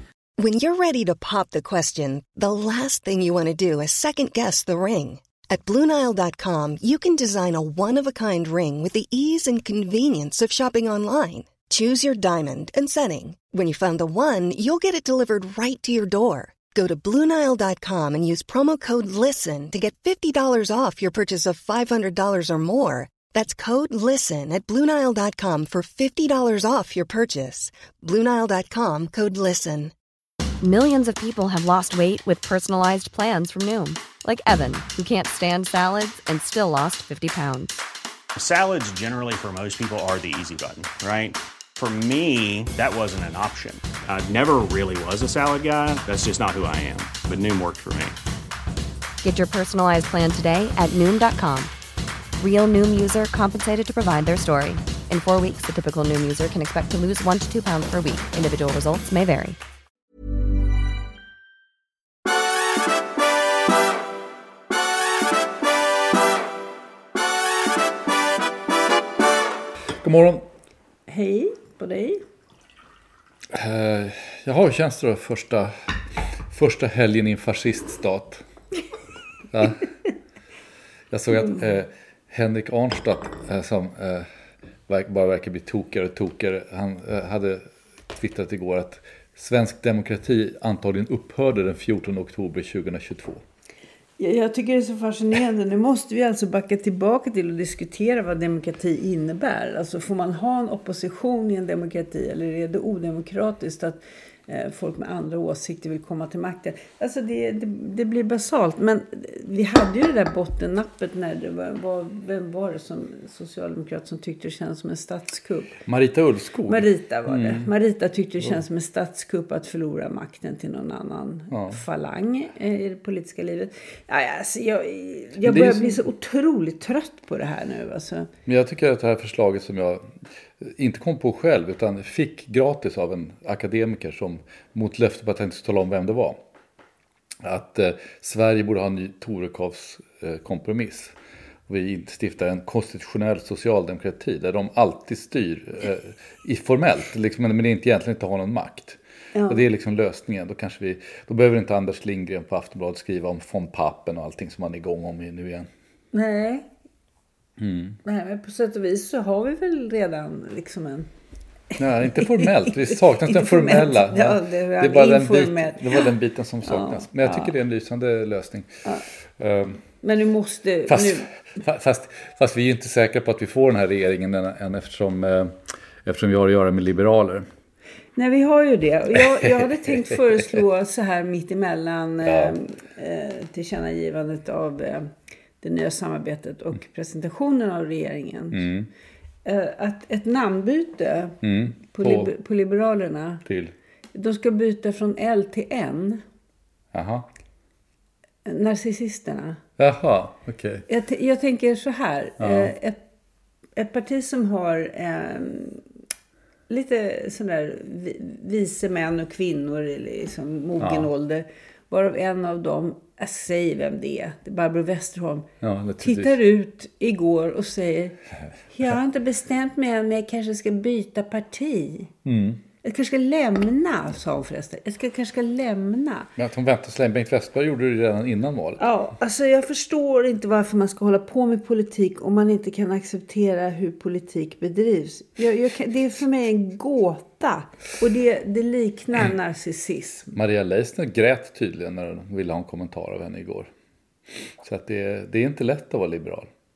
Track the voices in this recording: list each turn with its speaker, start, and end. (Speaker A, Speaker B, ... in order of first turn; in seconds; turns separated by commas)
Speaker A: 0.4-29.9, Speaker B: 30.6-37.8, Speaker C: 38.4-48.1, Speaker B: 49.2-51.7, Speaker B: 52.4-59.6, Speaker D: 70.0-70.5, Speaker E: 71.1-72.2, Speaker D: 73.5-78.4, Speaker D: 79.5-79.9, Speaker D: 81.1-84.3, Speaker D: 84.9-93.4, Speaker E: 94.2-115.8, Speaker D: 115.8-117.7, Speaker E: 116.7-128.3, Speaker D: 121.5-121.8, Speaker D: 125.4-126.0, Speaker D: 128.4-136.4, Speaker D: 137.4-141.1, Speaker D: 141.7-155.7, Speaker E: 149.3-149.6, Speaker E: 156.1-156.7, Speaker D: 157.6-158.0, Speaker E: 158.0-161.1, Speaker D: 161.8-168.7, Speaker E: 162.0-166.1, Speaker E: 166.6-167.5, Speaker D: 169.4-169.8, Speaker E: 170.0-171.3, Speaker D: 170.9-177.5, Speaker E: 178.2-185.1, Speaker D: 182.2-182.6, Speaker E: 185.6-188.7, Speaker D: 188.5-188.9, Speaker E: 189.4-191.4, Speaker D: 191.4-192.3, Speaker E: 191.9-193.4, Speaker D: 193.4-193.7, Speaker E: 194.1-196.2, Speaker D: 196.9-197.3, Speaker E: 198.4-199.6, Speaker D: 199.8-200.8, Speaker E: 200.9-203.0, Speaker D: 202.4-202.7, Speaker E: 203.8-205.8, Speaker E: 206.7-215.5, Speaker D: 210.8-211.1, Speaker D: 215.6-216.4, Speaker E: 216.0-218.2, Speaker E: 218.7-222.1, Speaker D: 222.2-222.6, Speaker E: 222.8-226.3, Speaker D: 226.4-228.8, Speaker E: 228.8-240.3, Speaker D: 240.3-243.7, Speaker D: 244.6-246.5